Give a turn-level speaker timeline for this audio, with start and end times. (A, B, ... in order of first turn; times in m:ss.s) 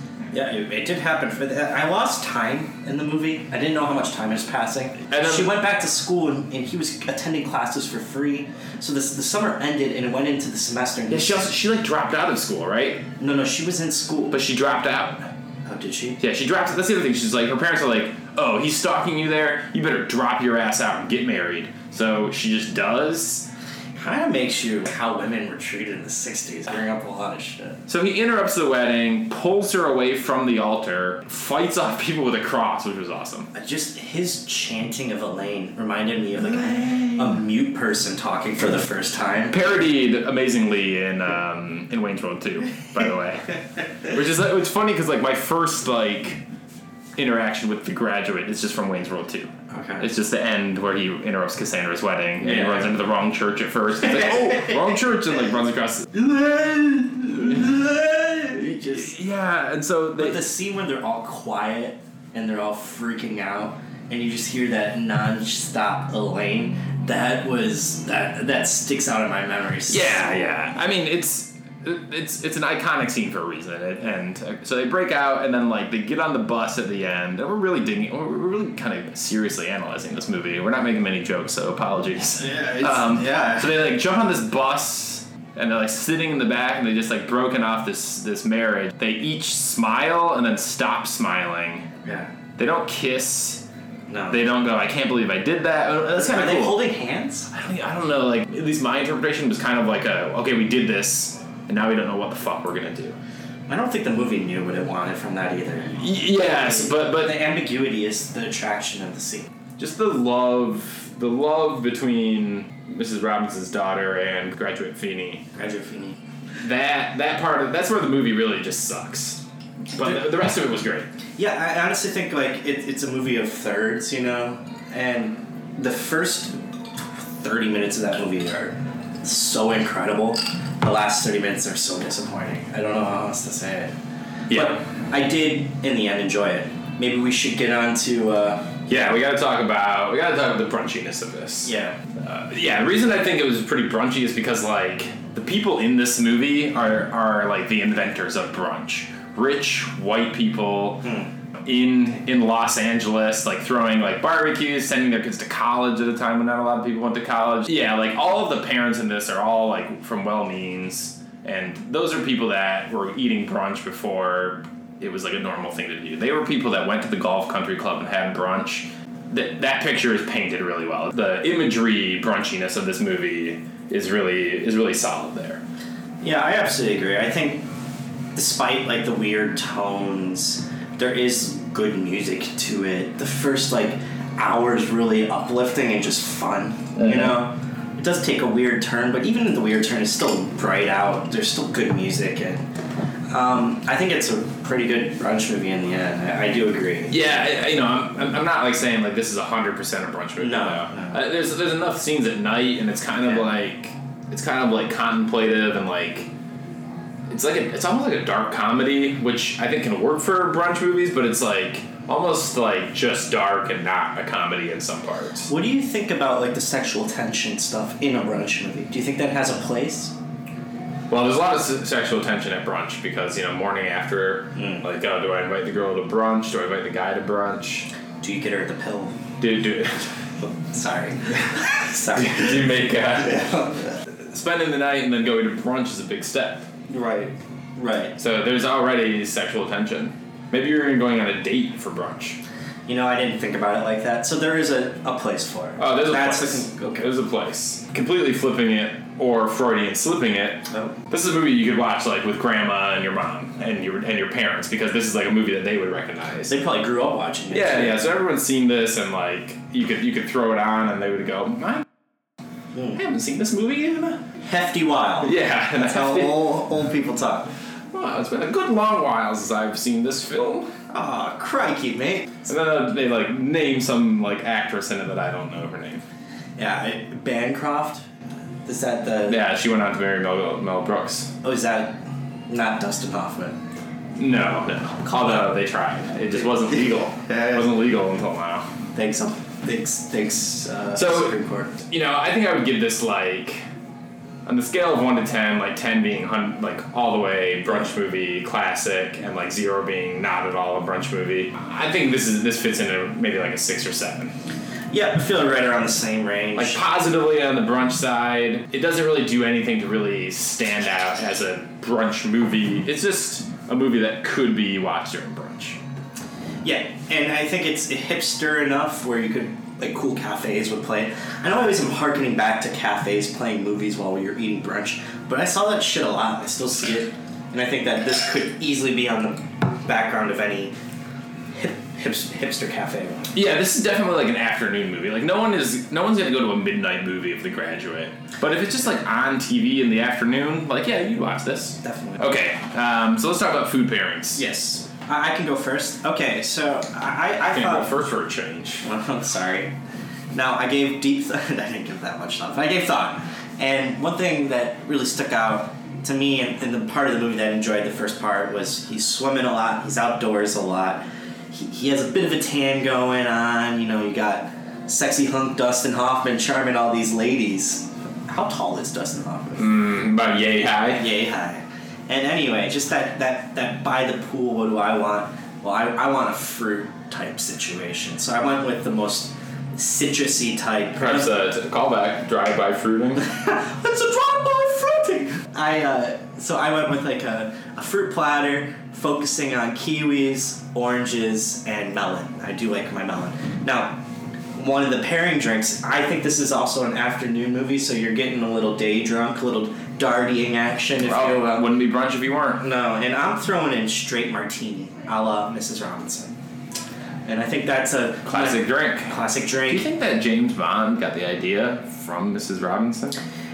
0:00.3-0:11.5 A
0:05.1-0:05.6 B
0:11.1-0:13.1 B
0:13.2-0:14.4 A
0:14.3-0:15.3 B
0:15.6-0:16.2 A
0:16.2-0:23.5 B
0:24.0-0:27.8 A
0:27.9-0:33.5 B
0:33.5-0:39.6 A
0:36.4-0:37.4 B
0:39.5-0:46.4 B
0:47.2-0:56.1 B
0:49.7-0:50.1 A
0:52.4-0:52.9 A
0:56.1-0:59.2 A
0:58.7-1:00.4 B
1:00.2-1:10.3 A
1:09.9-1:31.9 B
1:22.4-1:23.8 A
1:32.0-1:32.3 A
1:32.6-1:33.6 B
1:34.1-1:34.4 A
1:34.3-1:36.8 B
1:36.1-1:37.5 A
1:37.5-1:43.2 B
1:43.7-1:49.5 A
1:46.0-1:47.4 B
1:49.8-1:55.5 B
1:55.6-1:56.2 A
1:56.6-2:01.1 B
2:01.4-2:06.6 A
2:07.4-2:13.9 A
2:14.5-2:14.8 B
2:14.5-2:18.8 A
2:18.9-2:31.1 B
2:21.6-2:22.0 A
2:31.0-2:31.3 A
2:31.6-2:55.6 B
2:56.2-2:57.7 A
2:58.4-3:12.6 A
3:07.0-3:07.4 B
3:13.3-3:17.4 A
3:17.1-3:26.3 B
3:20.4-3:21.2 A
3:27.3-3:35.5 B
3:35.5-3:40.1 A
3:41.1-3:47.9 B
3:44.6-3:44.8 A
3:48.2-3:49.2 A
3:49.4-3:50.1 B
3:50.6-3:52.6 A
3:52.1-3:56.7 B
3:53.2-3:54.0 A
3:56.9-3:58.2 A
3:58.2-4:02.4 B
4:02.9-4:07.1 A
4:05.8-4:16.6 B
4:16.5-4:18.0 A
4:17.5-4:21.9 B
4:22.7-4:23.0 A
4:23.0-4:24.2 B
4:24.4-4:27.5 A
4:25.2-4:26.5 B
4:27.9-4:30.7 B
4:30.9-4:32.4 A
4:32.5-4:36.0 B
4:36.6-4:38.1 A
4:38.7-4:39.4 A
4:39.3-4:41.3 B
4:41.4-4:43.6 A
4:44.2-4:48.7 B
4:47.2-4:47.6 A
4:48.9-4:51.8 A
4:51.0-4:53.6 B
4:54.5-5:04.3 B
5:04.9-5:06.8 A
5:06.6-5:15.8 B
5:16.6-5:30.8 A
5:31.5-5:33.4 A
5:33.3-5:44.4 B
5:41.8-5:42.3 A
5:44.4-5:47.9 A
5:47.5-5:48.8 B
5:48.8-5:49.8 A
5:50.3-6:09.8 A
6:09.6-6:11.1 B
6:11.0-6:21.4 A
6:21.0-6:23.3 B
6:23.2-6:34.0 A
6:34.5-6:41.7 A
6:41.0-6:42.6 B
6:42.6-6:46.3 A
6:47.3-6:49.9 A
6:48.3-6:49.1 B
6:49.6-6:53.2 B